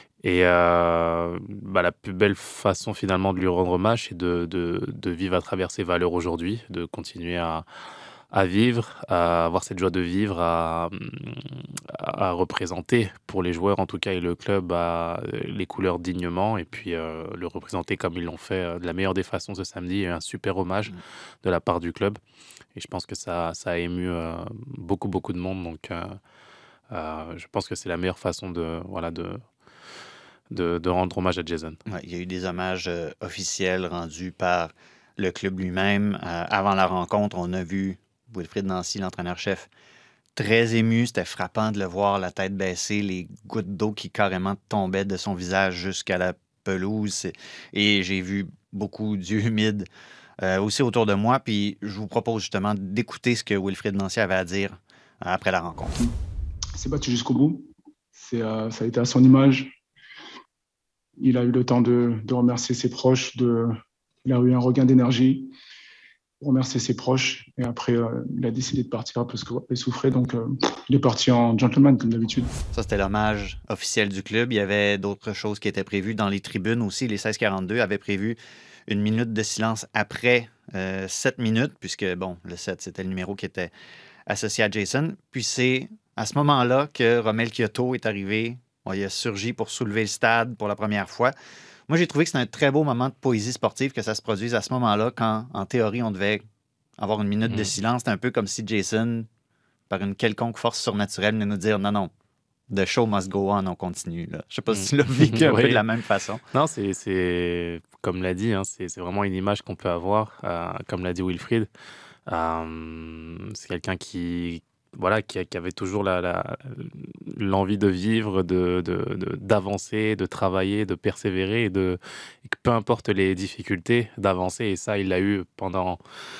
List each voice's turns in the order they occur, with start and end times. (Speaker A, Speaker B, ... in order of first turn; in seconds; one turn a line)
Speaker A: 0.2-7.7
Speaker A: 8.3-22.2
Speaker A: 22.8-26.2
Speaker A: 26.9-29.4
Speaker A: 30.5-31.8
Speaker B: 31.9-39.7
Speaker B: 40.4-49.9
Speaker B: 50.4-56.0
Speaker C: 56.8-59.7
Speaker C: 61.2-65.5
Speaker C: 66.4-72.5
Speaker B: 72.7-83.7
Speaker B: 84.3-91.3
Speaker B: 91.9-96.4
Speaker B: 97.0-99.3
Speaker A: 97.5-97.7
Speaker B: 99.9-102.1
Speaker B: 102.7-106.4
Speaker A: 104.7-105.8
Speaker A: 106.5-111.7
Speaker A: 112.3-126.0